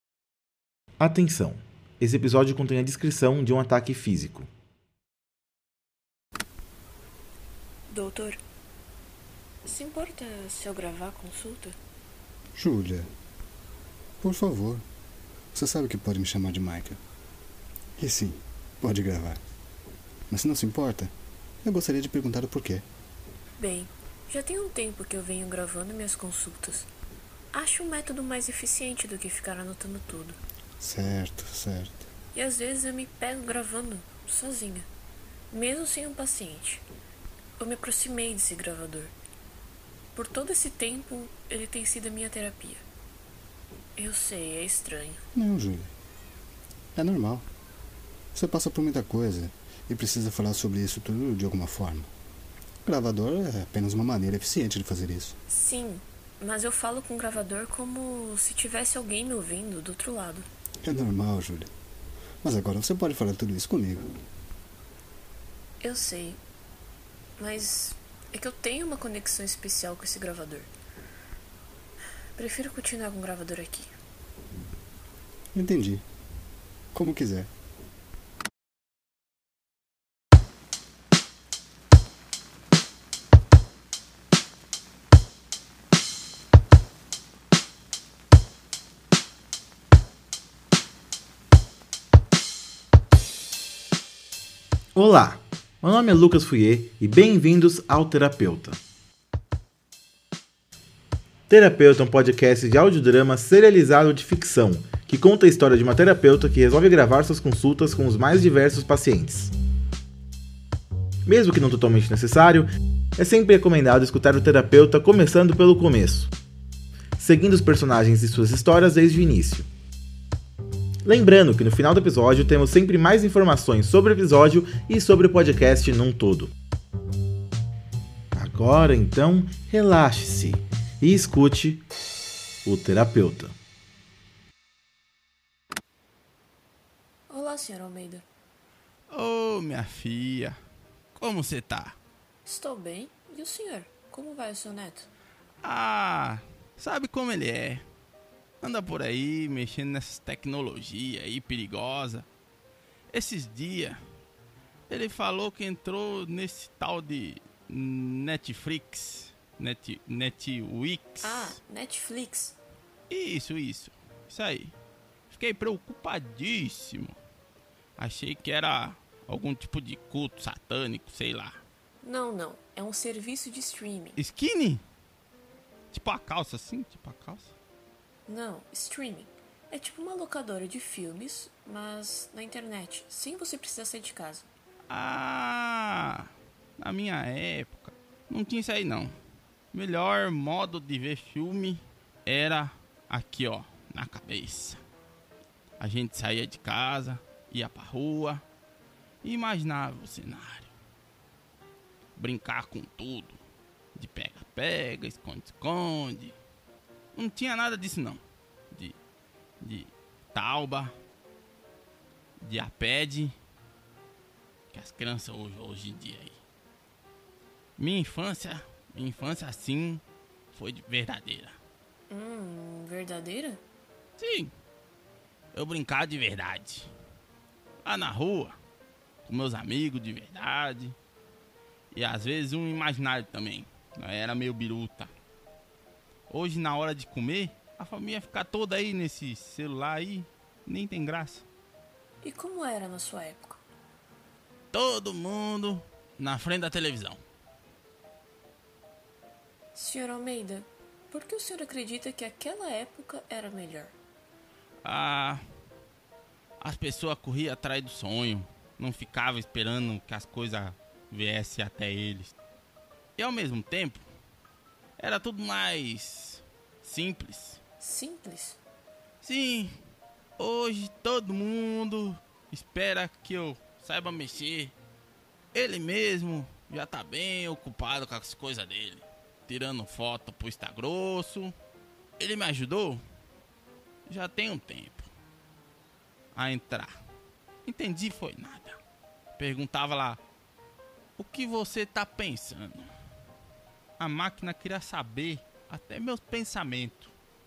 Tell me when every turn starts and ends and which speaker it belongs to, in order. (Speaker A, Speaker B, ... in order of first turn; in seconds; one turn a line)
Speaker A: 1.0-4.5
Speaker B: 7.9-8.4
Speaker B: 9.7-11.8
Speaker C: 12.6-13.1
Speaker C: 14.2-14.8
Speaker C: 15.5-17.0
Speaker C: 18.0-19.4
Speaker C: 20.3-22.9
Speaker B: 23.6-26.9
Speaker B: 27.5-30.4
Speaker C: 30.8-32.1
Speaker B: 32.3-34.9
Speaker B: 35.5-36.8
Speaker B: 37.6-39.1
Speaker B: 40.1-42.8
Speaker B: 44.0-45.2
Speaker C: 45.3-45.9
Speaker C: 47.0-47.5
Speaker C: 48.3-52.1
Speaker C: 52.9-55.4
Speaker B: 55.5-60.5
Speaker C: 60.8-61.7
Speaker C: 62.4-64.1
Speaker B: 65.8-66.4
Speaker B: 67.4-70.7
Speaker B: 72.4-73.9
Speaker C: 75.5-76.1
Speaker C: 76.9-77.5
Speaker A: 95.0-98.8
Speaker A: 101.5-109.5
Speaker A: 111.2-116.3
Speaker A: 117.2-119.7
Speaker A: 121.0-126.5
Speaker A: 128.3-131.8
Speaker A: 132.7-133.6
Speaker B: 137.3-138.2
Speaker D: 139.1-140.6
Speaker D: 141.2-142.0
Speaker B: 142.4-145.1
Speaker D: 145.6-147.8
Speaker D: 148.6-152.3
Speaker D: 153.1-154.0
Speaker D: 154.9-161.6
Speaker B: 161.2-162.6
Speaker D: 163.1-164.7
Speaker D: 165.3-167.2
Speaker D: 168.0-171.6
Speaker B: 172.0-174.2
Speaker D: 174.2-174.8
Speaker D: 175.9-177.5
Speaker B: 178.3-184.5
Speaker D: 184.9-189.2
Speaker D: 189.7-194.8
Speaker D: 195.8-198.4
Speaker D: 199.2-200.7
Speaker D: 202.2-203.4
Speaker D: 203.9-206.4
Speaker D: 207.1-208.9
Speaker D: 209.6-210.9
Speaker D: 212.4-213.3
Speaker D: 214.7-216.4
Speaker D: 217.8-220.0
Speaker D: 220.5-221.6
Speaker B: 222.1-223.6
Speaker D: 224.2-224.5
Speaker D: 225.5-226.9
Speaker D: 227.8-228.6
Speaker D: 229.2-231.0
Speaker D: 231.9-235.1
Speaker D: 236.3-241.4
Speaker B: 242.2-243.6
Speaker D: 244.7-247.2
Speaker B: 249.8-253.9
Speaker D: 254.8-255.4
Speaker D: 256.6-262.3
Speaker D: 263.2-264.0
Speaker D: 265.0-267.6
Speaker B: 267.8-268.6
Speaker D: 269.2-269.8
Speaker D: 270.4-274.7
Speaker D: 275.5-281.5
Speaker D: 282.2-283.0
Speaker D: 284.1-285.1
Speaker D: 286.4-287.0
Speaker D: 287.6-288.8
Speaker D: 289.4-290.2
Speaker D: 291.2-292.9
Speaker D: 294.0-297.1